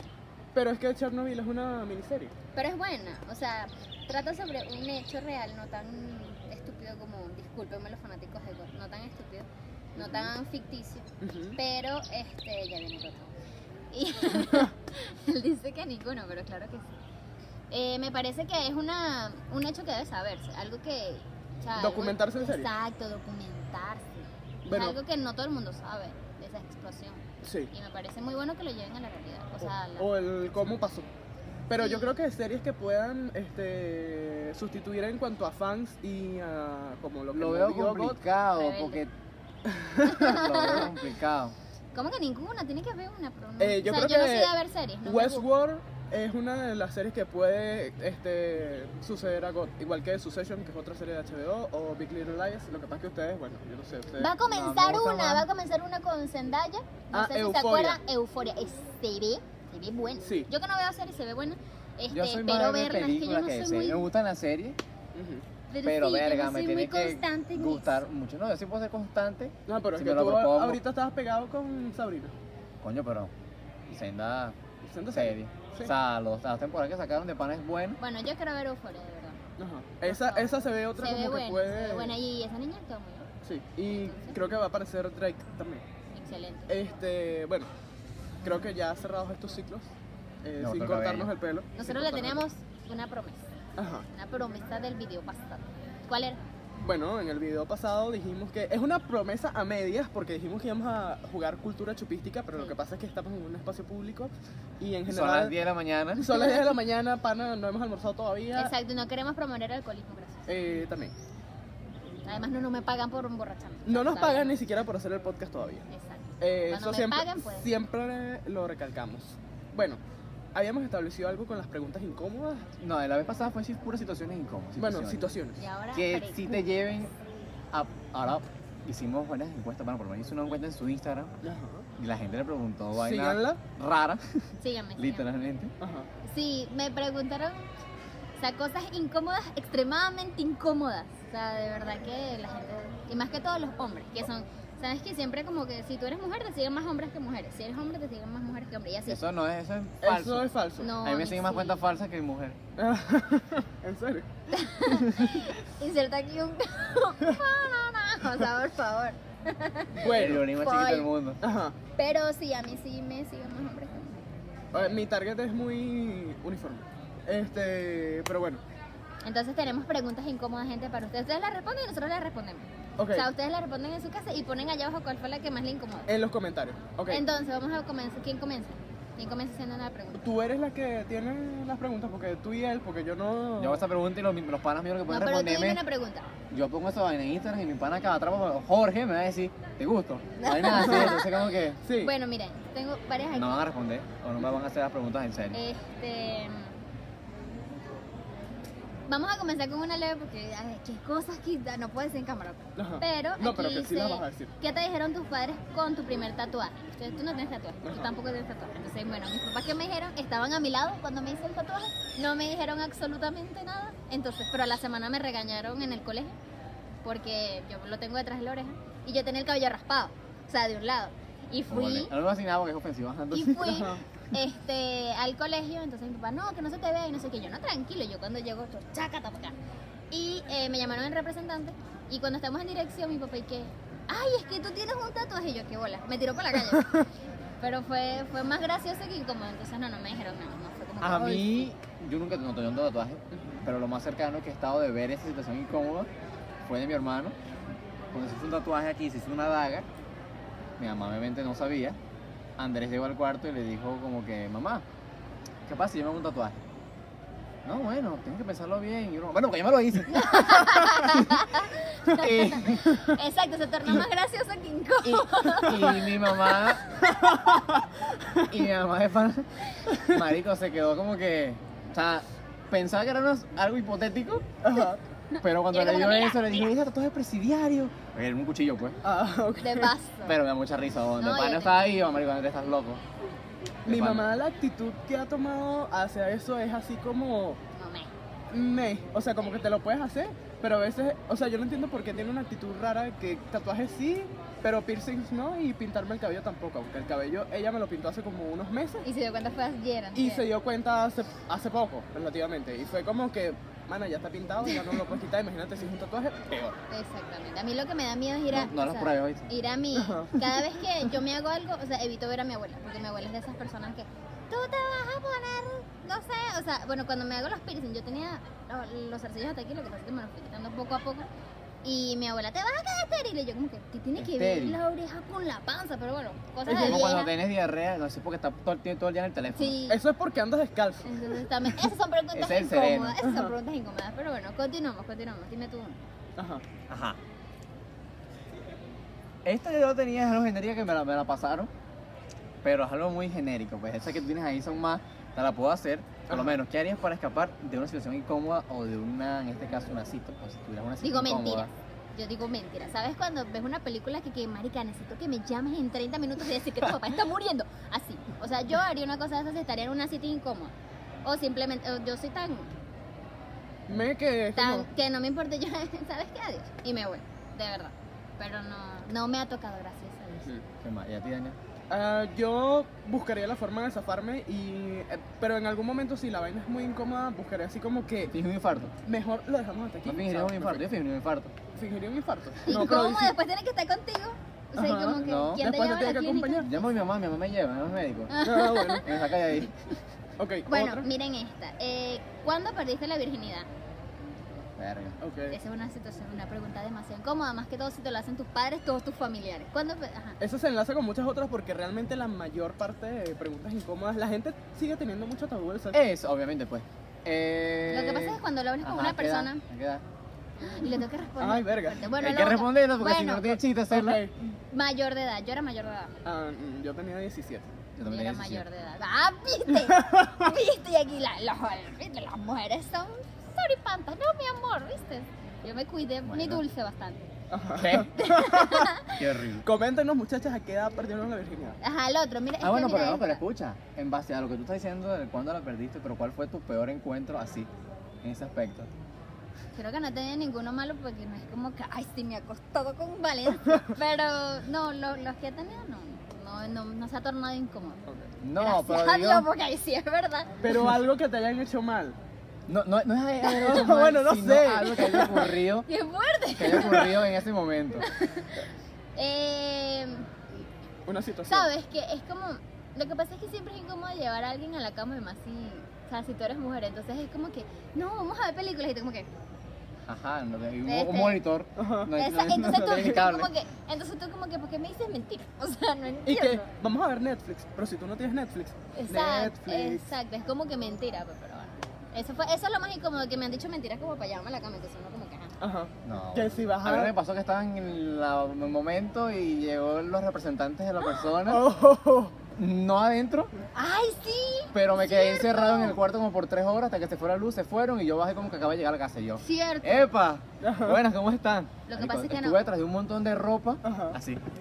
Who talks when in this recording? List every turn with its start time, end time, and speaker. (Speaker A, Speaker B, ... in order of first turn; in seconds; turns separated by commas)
Speaker A: 0.5-2.3, Speaker B: 2.5-13.3, Speaker A: 10.0-10.3, Speaker A: 11.2-11.6, Speaker B: 13.9-16.9, Speaker B: 17.7-30.1, Speaker A: 21.8-22.7, Speaker A: 24.6-25.0, Speaker A: 27.4-27.7, Speaker A: 29.6-31.1, Speaker A: 31.7-38.2, Speaker B: 31.8-32.1, Speaker C: 37.3-39.1, Speaker B: 38.5-39.0, Speaker A: 39.6-40.3, Speaker B: 40.0-41.0, Speaker C: 40.1-41.5, Speaker B: 41.9-45.5, Speaker A: 43.6-54.3, Speaker B: 54.2-64.0, Speaker C: 54.4-55.5, Speaker A: 57.1-58.0, Speaker A: 60.2-60.5, Speaker C: 62.1-64.8, Speaker A: 65.1-65.4, Speaker B: 65.7-67.9, Speaker C: 65.8-70.8, Speaker A: 69.7-72.3, Speaker C: 72.8-73.3, Speaker C: 73.9-74.6, Speaker A: 74.8-75.9, Speaker C: 75.1-78.0, Speaker B: 78.0-79.4, Speaker A: 79.6-82.2, Speaker B: 80.0-83.3, Speaker A: 83.4-85.8, Speaker B: 83.9-84.4, Speaker B: 86.1-86.7, Speaker A: 86.7-87.7, Speaker A: 88.4-89.9, Speaker A: 90.4-92.4, Speaker C: 90.6-91.3, Speaker B: 91.8-93.5, Speaker A: 93.8-94.1, Speaker B: 94.1-96.4, Speaker A: 96.8-105.5, Speaker C: 105.1-106.3, Speaker A: 106.2-108.7, Speaker B: 106.2-106.8, Speaker B: 108.5-110.5, Speaker A: 110.5-111.1, Speaker B: 112.2-114.6, Speaker A: 113.8-115.9, Speaker B: 115.9-117.7, Speaker A: 116.4-120.0, Speaker A: 120.5-122.7, Speaker C: 122.8-125.3, Speaker A: 124.8-125.6, Speaker B: 125.6-126.6, Speaker C: 125.9-127.1, Speaker C: 127.7-131.3, Speaker A: 131.4-131.9, Speaker C: 132.0-135.7, Speaker A: 133.0-133.6, Speaker B: 134.6-135.3, Speaker A: 135.8-136.1, Speaker B: 136.2-137.7, Speaker B: 138.4-149.2, Speaker C: 149.1-152.6, Speaker A: 150.0-150.9, Speaker B: 150.8-151.8, Speaker A: 152.8-154.3, Speaker B: 154.5-161.1, Speaker A: 160.0-160.5, Speaker C: 160.0-161.4, Speaker A: 161.4-161.8, Speaker B: 161.9-164.2, Speaker A: 164.7-168.6, Speaker B: 169.2-176.1, Speaker A: 173.0-173.3, Speaker A: 176.1-177.2, Speaker B: 177.1-180.3, Speaker A: 180.2-183.8, Speaker C: 183.6-185.8, Speaker B: 185.1-186.3, Speaker C: 186.5-191.8, Speaker B: 190.4-193.6, Speaker A: 191.8-192.1, Speaker C: 193.3-195.6, Speaker B: 195.5-196.8, Speaker B: 199.1-216.3, Speaker A: 202.8-204.5, Speaker A: 207.8-208.1, Speaker B: 217.0-222.1, Speaker C: 221.7-223.9, Speaker B: 223.3-229.6, Speaker A: 223.7-224.0, Speaker B: 230.1-237.0, Speaker B: 237.6-241.7, Speaker C: 241.0-246.1, Speaker A: 243.3-243.6, Speaker C: 246.6-247.3, Speaker C: 248.1-249.8, Speaker C: 250.8-252.0, Speaker C: 252.6-254.8, Speaker C: 255.7-256.6, Speaker C: 257.6-261.4, Speaker B: 260.1-266.6, Speaker C: 262.1-263.1, Speaker C: 265.0-266.9, Speaker A: 267.0-268.5, Speaker C: 268.5-274.4, Speaker A: 274.6-275.0, Speaker B: 275.3-276.7, Speaker C: 275.4-279.0, Speaker A: 279.0-279.9, Speaker B: 279.6-280.4, Speaker C: 280.2-283.0, Speaker B: 281.2-282.0, Speaker C: 283.9-284.3, Speaker A: 283.9-287.6, Speaker B: 287.7-288.1, Speaker A: 288.5-299.0, Speaker B: 299.0-300.5, Speaker A: 300.1-306.7, Speaker B: 306.9-321.3, Speaker C: 308.5-309.5, Speaker A: 309.9-310.6, Speaker B: 321.8-327.3, Speaker C: 324.1-324.8, Speaker A: 326.6-327.2, Speaker C: 326.7-329.8, Speaker B: 329.6-330.0, Speaker A: 329.9-331.4, Speaker B: 331.0-336.0, Speaker C: 332.3-333.2, Speaker A: 333.2-333.5, Speaker A: 336.4-336.6, Speaker C: 336.9-337.2, Speaker C: 339.4-341.7, Speaker C: 342.6-351.7, Speaker A: 346.3-346.6, Speaker B: 351.0-362.7, Speaker A: 363.9-364.9, Speaker B: 364.5-370.5, Speaker C: 370.8-371.6, Speaker A: 371.9-378.3, Speaker C: 378.3-378.9, Speaker A: 379.0-380.8, Speaker C: 380.0-381.5, Speaker A: 381.7-383.4, Speaker B: 382.6-386.7, Speaker A: 384.8-386.7, Speaker C: 385.2-385.7, Speaker C: 386.6-388.4, Speaker B: 388.3-389.1, Speaker A: 388.4-389.1, Speaker C: 389.0-390.0, Speaker A: 390.4-391.1, Speaker B: 390.7-393.7, Speaker C: 394.8-395.2, Speaker A: 395.2-395.6, Speaker B: 395.5-400.4, Speaker A: 400.4-406.0, Speaker C: 405.9-410.0, Speaker B: 407.9-409.6, Speaker B: 410.6-413.6, Speaker A: 411.4-412.1, Speaker C: 412.1-414.2, Speaker A: 413.9-414.3, Speaker B: 414.4-416.1, Speaker A: 416.2-417.7, Speaker C: 418.0-418.6, Speaker B: 418.0-427.2, Speaker A: 419.9-420.4, Speaker C: 426.2-426.6, Speaker A: 427.5-429.0, Speaker C: 427.8-428.2, Speaker B: 428.1-429.2, Speaker C: 429.2-429.6, Speaker A: 429.6-431.8, Speaker B: 431.8-433.4, Speaker C: 432.6-437.7, Speaker C: 438.2-438.9, Speaker B: 439.7-448.0, Speaker C: 448.4-449.5, Speaker B: 448.6-450.6, Speaker A: 450.6-452.2, Speaker C: 452.7-455.9, Speaker A: 453.5-455.5, Speaker B: 454.8-457.2, Speaker C: 456.6-458.1, Speaker B: 458.0-460.3, Speaker A: 461.1-461.7, Speaker B: 461.5-469.3, Speaker C: 470.0-473.5, Speaker B: 470.8-471.4, Speaker A: 471.8-473.2, Speaker B: 472.1-476.6, Speaker A: 476.2-480.1, Speaker B: 478.9-485.5, Speaker A: 485.6-487.1, Speaker C: 486.0-491.7, Speaker A: 491.4-492.3, Speaker C: 492.5-493.5, Speaker B: 493.7-496.0, Speaker C: 494.7-504.4, Speaker B: 499.4-500.1, Speaker A: 500.6-501.0, Speaker B: 501.9-502.7, Speaker A: 503.8-504.2